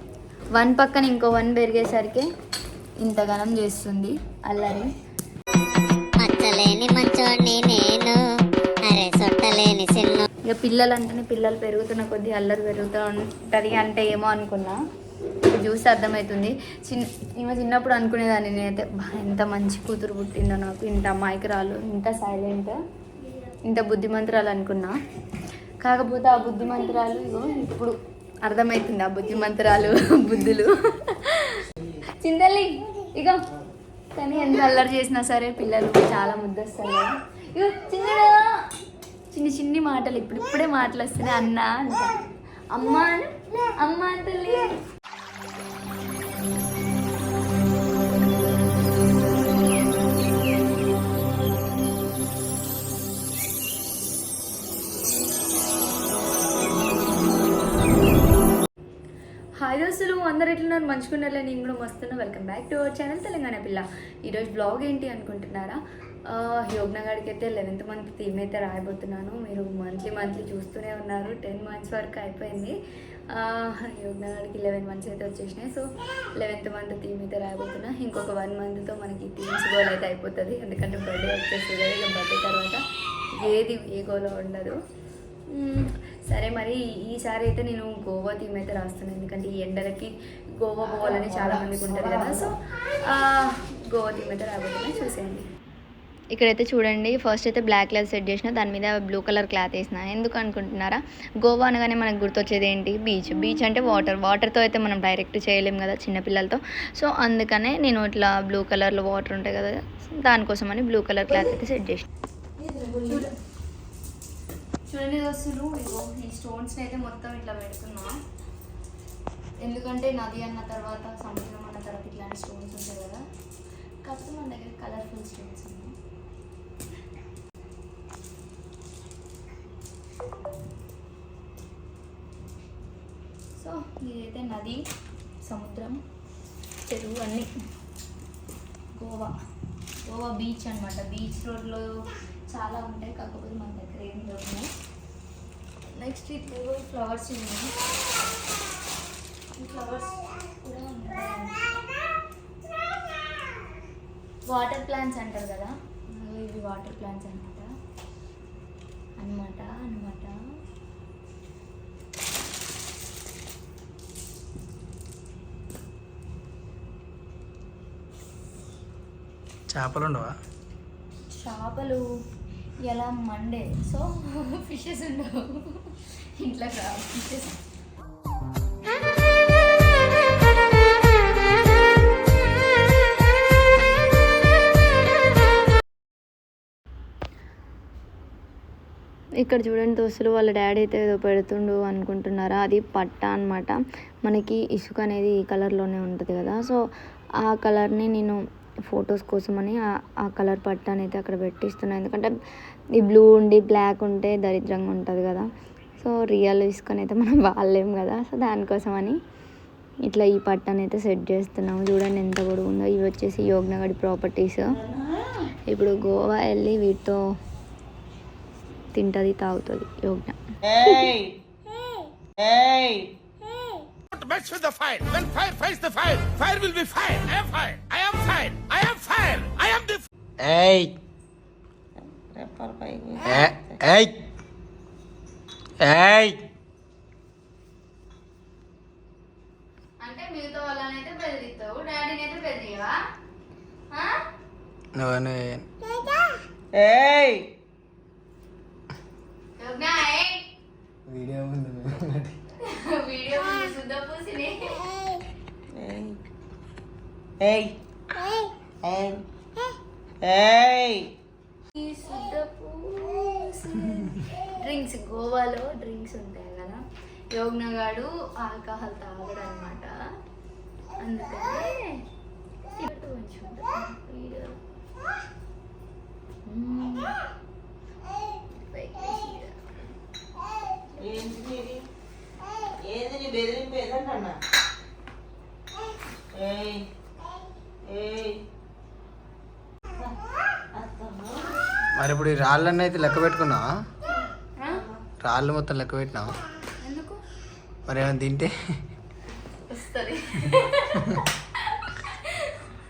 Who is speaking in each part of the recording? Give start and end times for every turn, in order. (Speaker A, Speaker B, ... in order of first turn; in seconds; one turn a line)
Speaker A: 0.6-2.3
Speaker A: 3.0-4.9
Speaker B: 6.2-8.2
Speaker B: 8.9-10.3
Speaker A: 10.5-14.8
Speaker A: 15.5-22.8
Speaker A: 23.7-24.9
Speaker A: 25.9-31.7
Speaker A: 32.2-33.4
Speaker A: 34.1-38.4
Speaker A: 39.3-42.2
Speaker A: 42.8-44.8
Speaker A: 59.6-65.8
Speaker A: 66.3-72.8
Speaker A: 73.3-75.8
Speaker A: 76.4-82.8
Speaker A: 83.3-84.8
Speaker A: 85.5-95.5
Speaker C: 91.2-92.3
Speaker A: 96.3-112.1
Speaker A: 112.6-113.3
Speaker A: 114.9-118.2
Speaker A: 119.6-123.2
Speaker A: 124.0-126.0
Speaker A: 133.6-134.8
Speaker A: 135.4-136.0
Speaker A: 136.9-137.5
Speaker A: 138.9-139.3
Speaker A: 140.1-141.9
Speaker A: 142.5-144.7
Speaker A: 145.9-147.7
Speaker A: 149.6-151.8
Speaker A: 154.5-157.7
Speaker A: 159.2-160.3
Speaker D: 169.7-170.3
Speaker A: 171.3-172.1
Speaker A: 172.8-177.6
Speaker A: 189.4-193.8
Speaker A: 194.3-196.8
Speaker A: 197.4-202.3
Speaker A: 203.0-205.5
Speaker A: 206.0-209.2
Speaker A: 210.1-214.7
Speaker C: 214.7-215.5
Speaker A: 215.7-217.2
Speaker A: 218.9-220.4
Speaker C: 220.7-221.4
Speaker C: 222.4-223.1
Speaker E: 224.1-230.0
Speaker D: 230.4-230.9
Speaker C: 232.0-233.8
Speaker D: 233.2-234.2
Speaker D: 235.8-236.4
Speaker A: 240.0-243.0
Speaker D: 244.9-245.7
Speaker C: 246.7-247.5
Speaker A: 249.6-250.5
Speaker D: 251.1-252.3
Speaker A: 252.6-254.9
Speaker C: 255.8-256.2
Speaker C: 257.4-257.8
Speaker C: 258.8-259.2
Speaker C: 260.2-261.1
Speaker A: 261.7-266.8
Speaker A: 267.3-269.9
Speaker A: 271.0-272.0
Speaker A: 272.8-274.6
Speaker A: 276.5-277.1
Speaker A: 278.6-279.6
Speaker C: 281.0-281.8
Speaker C: 282.8-284.4
Speaker C: 286.3-286.9
Speaker C: 287.8-288.4
Speaker C: 290.7-291.5
Speaker D: 291.9-293.7
Speaker C: 294.7-295.0
Speaker D: 295.2-296.4
Speaker A: 296.8-297.2
Speaker D: 297.9-298.5
Speaker A: 299.7-301.2
Speaker A: 301.8-302.6